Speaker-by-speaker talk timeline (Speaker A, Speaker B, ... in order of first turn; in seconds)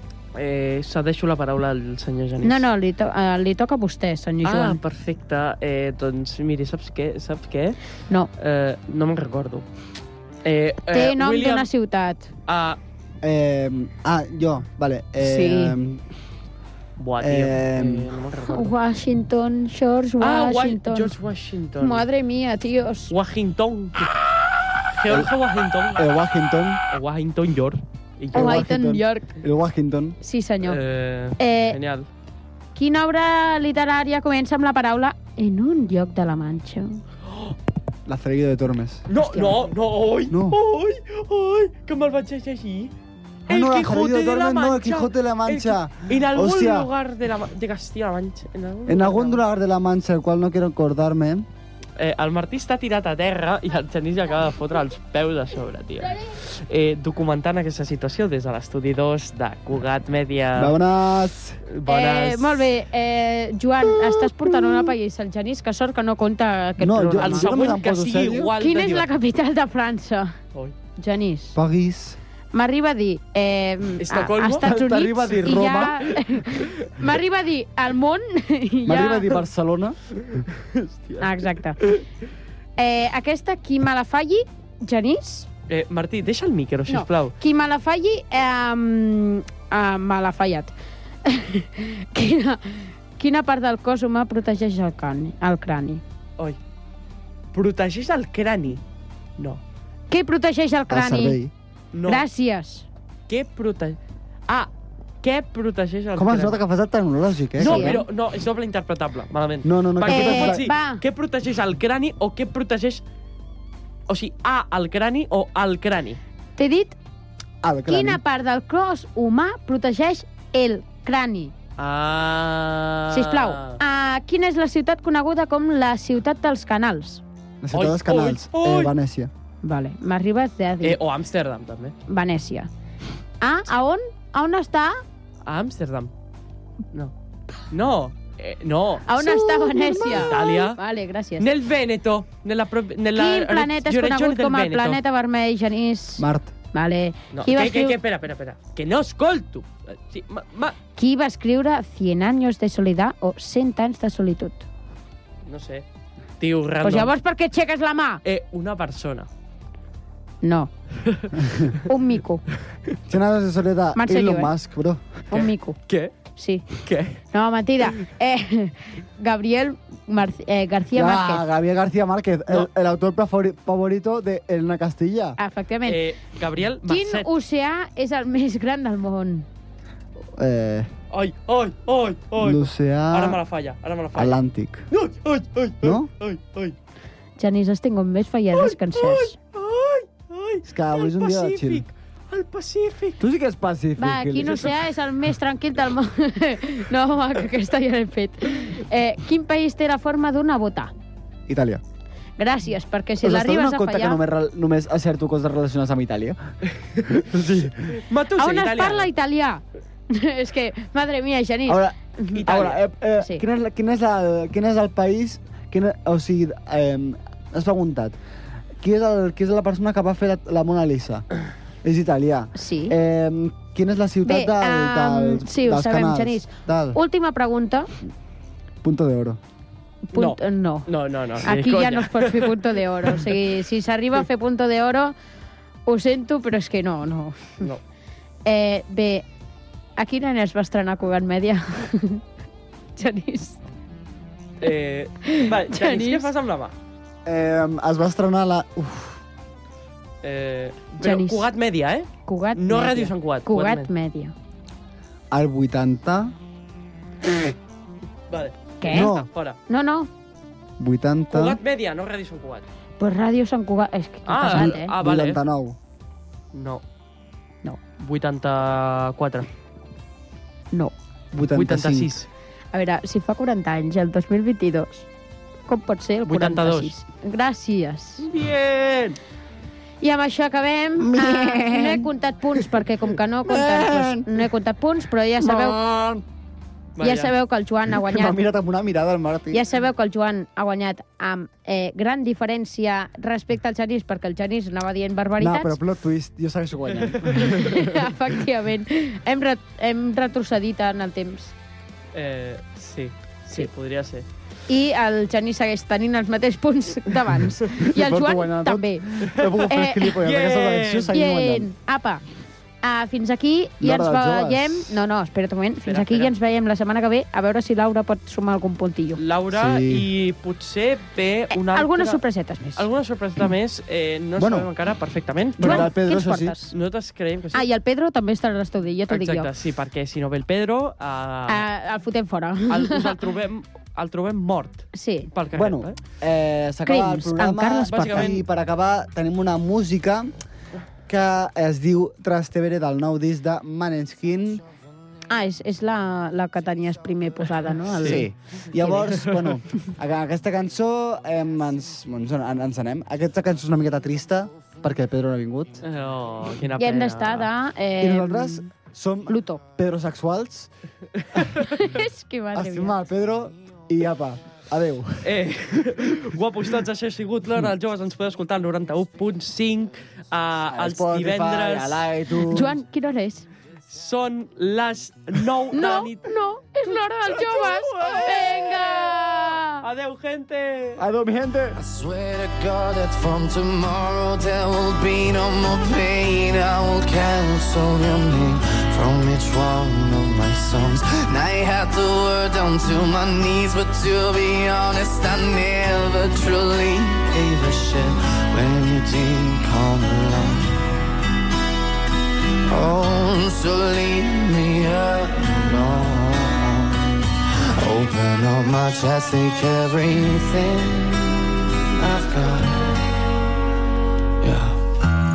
Speaker A: 0.3-2.6, 4.4-7.8, 8.3-9.7, 10.4-11.7, 12.5-12.8, 17.0-18.7, 20.2-22.1, 23.1-24.3, 24.9-26.1, 26.9-28.6, 30.6-32.1, 39.1-42.9, 43.5-49.4, 52.0-60.8, 61.7-62.7, 67.2-69.1, 74.0-74.7, 80.2-81.3, 85.7-87.3, 97.5-98.8, 101.9-102.2, 103.3-104.7, 105.2-106.6, 107.6-113.0, 114.1-116.2, 121.8-123.8, 127.7-128.9, 130.8-131.9, 135.4-136.1, 137.7-140.8, 141.4-145.0, 147.3-150.8, 155.4-155.8, 156.4-157.1, 158.2-159.3, 161.1-161.3, 165.3-166.1, 166.7-167.2, 175.8-177.3, 181.1-184.4, 184.9-186.7, 188.5-193.2, 207.1-209.1, 212.3-212.8, 230.1-233.4, 244.6-246.7, 250.2-253.9, 258.3-259.6, 261.3-262.6, 264.3-265.4, 266.5-266.8, 267.9-269.5, 271.4-272.3, 276.3-276.9, 278.2-279.2, 287.0-287.3, 296.9-297.4, 302.1-304.2, 310.2-311.1, 315.8-316.3, 319.2-322.2, 322.7-325.9, 326.7-327.6, 329.1-331.7, 332.7-336.0, 337.9-338.4, 348.0-348.3, 349.1-349.5, 355.8-357.5, 365.2-372.1, 373.9-376.2, 377.5-381.0
Speaker B: 2.4-4.8, 10.9-12.3, 15.2-15.8, 18.5-21.1, 21.8-23.1, 28.3-29.3, 30.2-30.8, 31.4-31.8, 32.7-37.0, 39.2-39.6, 61.9-67.6, 68.6-70.3, 71.0-71.6, 72.5-79.4, 81.2-81.8, 82.8-85.5, 86.9-90.7, 91.2-96.0, 100.1-101.4, 102.1-102.9, 107.6-108.0, 110.0-111.0, 116.6-117.0, 117.9-121.5, 123.1-127.2, 129.6-131.0, 132.1-132.7, 133.4-135.0, 139.1-141.5, 143.1-148.0, 150.9-154.7, 156.8-158.2, 160.4-160.7, 161.8-162.4, 163.9-164.5, 165.3-165.8, 166.3-166.7, 167.3-171.4, 175.4-176.0, 176.9-179.5, 187.4-189.3, 194.0-200.9, 202.4-204.2, 208.4-212.5, 213.2-213.4, 222.5-222.9, 224.2-227.9, 230.1-230.9, 231.4-235.1, 235.8-237.7, 238.4-239.2, 240.0-242.2, 242.9-243.6, 245.2-246.3, 251.0-251.5, 252.2-254.3, 258.8-260.1, 263.0-264.9, 272.7-275.1, 275.7-278.2, 280.0-285.8, 287.0-288.4, 289.5-295.8, 297.4-301.5, 304.7-310.2, 311.1-312.2, 312.8-319.2, 321.5-322.9, 325.6-326.7, 327.5-329.5, 331.5-333.1, 334.9-335.3, 336.8-338.4, 345.3-348.3, 356.8-358.6, 359.3-359.6, 361.6-363.0, 372.5-373.5, 375.7-379.8
Speaker C: 13.2-16.0, 17.2-18.1, 25.9-26.8, 28.3-30.2, 38.0-39.1, 40.3-40.6, 43.5-46.9, 48.9-51.5, 60.5-61.6, 66.8-68.5, 71.5-72.2, 74.6-76.1, 78.8-80.0, 100.9-101.5, 106.2-108.0, 109.6-110.7, 117.6-118.2, 127.6-129.3, 140.1-140.3, 146.2-146.5, 163.1-165.2, 170.9-175.4, 180.3-180.9, 182.4-183.4, 184.1-184.9, 185.8-186.1, 190.6-191.8, 193.2-194.7, 201.5-201.8, 203.2-206.4, 207.1-207.7, 211.7-218.2, 218.8-221.2, 221.8-227.0, 228.8-229.4, 247.2-249.2, 255.3-256.3, 258.9-259.3, 260.8-261.6, 264.5-265.8, 271.3-272.1, 281.0-282.1, 283.4-284.3, 285.4-286.2, 287.9-289.6, 295.4-298.1, 307.7-311.7, 313.8-314.9, 319.5-320.1, 324.4-324.7, 325.6-326.5, 335.5-340.3, 341.1-344.6, 347.9-355.8, 358.0-360.7, 362.5-366.2, 370.7-372.7, 381.0-381.8
Speaker D: 381.7-400.9, 402.7-413.0, 414.4-415.0